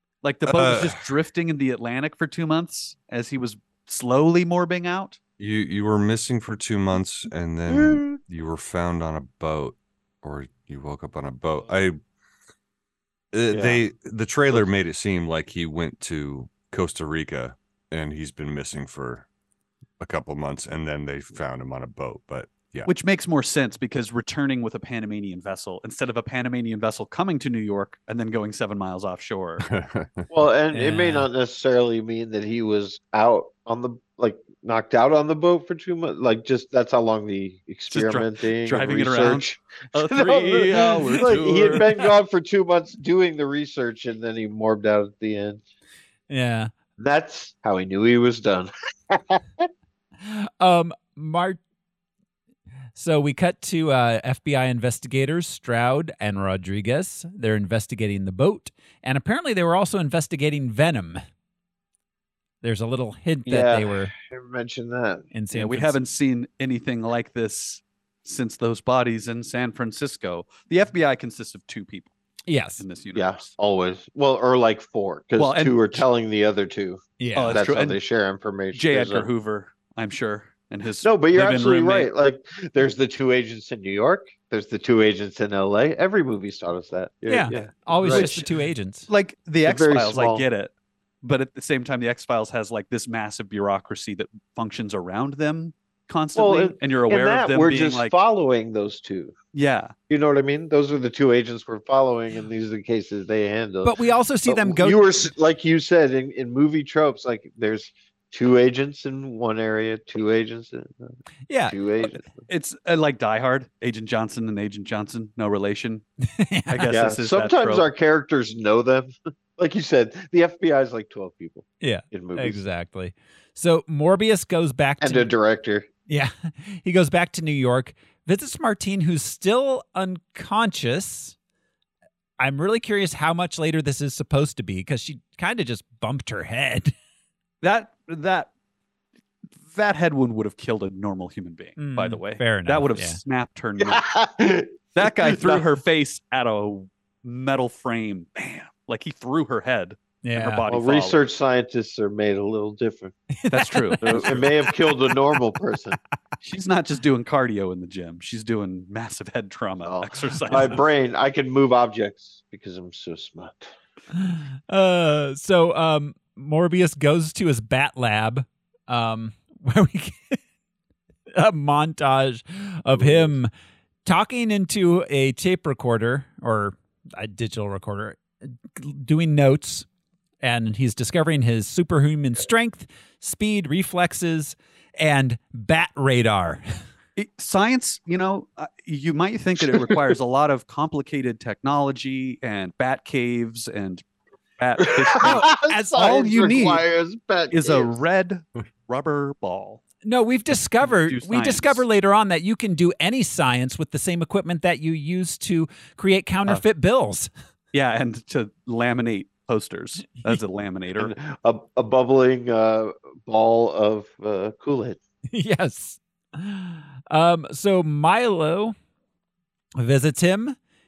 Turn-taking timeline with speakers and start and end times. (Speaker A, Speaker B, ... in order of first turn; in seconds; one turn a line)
Speaker A: 0.2-5.2
Speaker B: 0.5-1.0
Speaker B: 5.4-12.0
Speaker C: 7.7-8.2
Speaker B: 13.3-19.2
Speaker C: 13.5-13.8
Speaker B: 20.0-22.9
Speaker A: 22.9-29.6
Speaker B: 29.7-30.2
Speaker C: 30.3-45.6
Speaker D: 30.7-31.3
Speaker A: 37.9-42.0
Speaker D: 46.3-46.7
Speaker C: 47.0-49.7
Speaker D: 50.2-51.6
Speaker D: 52.9-61.2
Speaker D: 62.6-64.1
Speaker C: 63.5-65.3
Speaker D: 65.3-66.0
Speaker A: 65.5-72.1
Speaker D: 72.5-72.8
Speaker A: 72.8-73.5
Speaker C: 73.1-79.3
Speaker A: 75.4-76.0
Speaker D: 77.2-77.6
Speaker A: 77.3-78.0
Speaker A: 78.7-82.1
Speaker C: 81.0-88.3
Speaker D: 87.3-89.1
Speaker A: 87.5-90.7
Speaker C: 89.6-90.5
Speaker A: 91.2-98.1
Speaker C: 96.3-99.3
Speaker A: 99.5-99.9
Speaker C: 100.1-111.1
Speaker D: 103.8-105.0
Speaker D: 111.5-111.8
Speaker C: 111.7-112.2
Speaker A: 112.0-116.0
Speaker D: 116.2-116.9
Speaker A: 116.7-117.9
Speaker C: 116.9-122.6
Speaker D: 121.8-125.3
Speaker C: 125.0-125.9
Speaker D: 126.1-131.3
Speaker D: 132.4-136.9
Speaker A: 137.6-138.5
Speaker A: 139.6-144.1
Speaker D: 141.8-143.2
Speaker C: 143.8-145.7
Speaker A: 144.9-151.2
Speaker D: 150.2-150.6
Speaker C: 150.7-153.1
Speaker D: 153.4-154.7
Speaker A: 153.5-154.5
Speaker C: 154.0-156.0
Speaker A: 156.4-160.8
Speaker C: 159.8-163.7
Speaker D: 164.1-170.4
Speaker D: 171.3-173.5
Speaker C: 172.9-173.3
Speaker D: 174.0-178.2
Speaker D: 178.7-179.8
Speaker D: 180.4-186.6
Speaker A: 187.2-194.0
Speaker C: 189.7-190.0
Speaker A: 194.6-196.8
Speaker C: 194.8-197.9
Speaker D: 195.2-196.2
Speaker A: 197.5-199.8
Speaker D: 200.0-207.3
Speaker A: 200.8-201.8
Speaker A: 207.7-211.1
Speaker C: 211.0-215.0
Speaker D: 215.3-218.7
Speaker D: 219.8-220.6